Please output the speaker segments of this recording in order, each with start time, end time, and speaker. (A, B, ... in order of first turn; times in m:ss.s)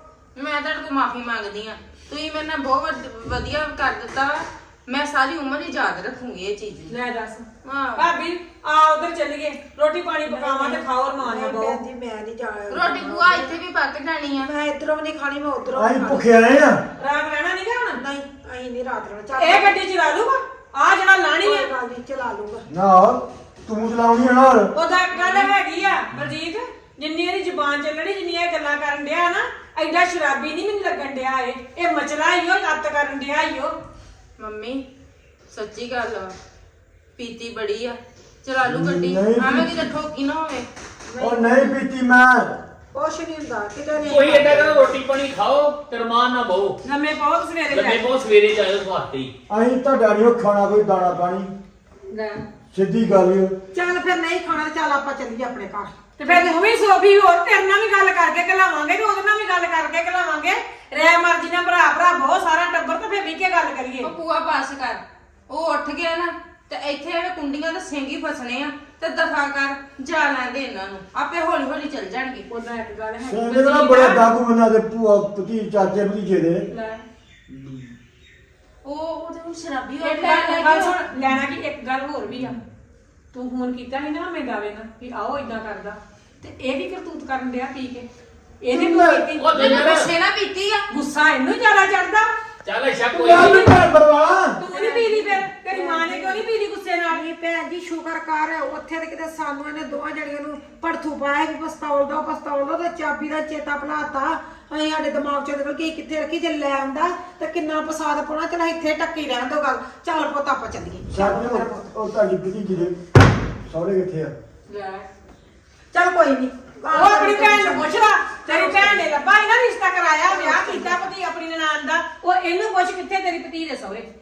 0:00.4-0:06.9 A
0:06.9-0:07.4 B
0:07.6-0:08.1 A
0:08.0-0:11.8 B
0:10.3-0:13.6 C
0:12.7-0:14.5 A
0:14.4-0:16.3 C
0:15.8-0:16.8 D
0:17.0-0:18.0 B
0:18.0-0:19.8 C
0:19.4-0:21.7 B
0:21.4-0:22.6 C
0:22.7-0:24.7 D
0:24.7-0:33.7 B
0:34.4-0:34.9 A
0:35.5-0:36.4 A
0:37.2-0:40.7 A
0:38.6-0:39.8 D
0:41.2-0:42.6 D
0:42.9-0:44.9 C
0:44.0-0:46.8 E
0:46.8-0:48.1 B
0:47.7-0:49.3 E
0:49.5-0:51.5 D
0:52.1-0:52.4 B
0:52.7-0:53.5 D
0:53.7-0:56.6 C
0:56.2-1:04.1 B
1:04.0-1:12.4 A
1:12.5-1:14.2 B
1:13.2-1:16.7 D
1:16.7-1:17.0 B
1:17.5-1:17.9 D
1:18.8-1:21.1 A
1:20.0-1:22.6 B
1:23.3-1:28.1 B
1:28.6-1:29.5 B
1:28.7-1:29.3 D
1:29.4-1:30.1 E
1:29.6-1:30.8 A
1:30.9-1:32.3 B
1:32.6-1:33.6 E
1:33.1-1:34.6 D
1:33.3-1:33.7 B
1:34.6-1:37.2 B
1:34.7-1:36.4 C
1:37.1-1:51.8 C
1:51.1-1:53.0 D
1:53.7-1:54.4 D
1:54.7-1:55.0 B
1:55.9-1:59.0 C
1:56.9-2:04.0 B
2:00.3-2:01.0 C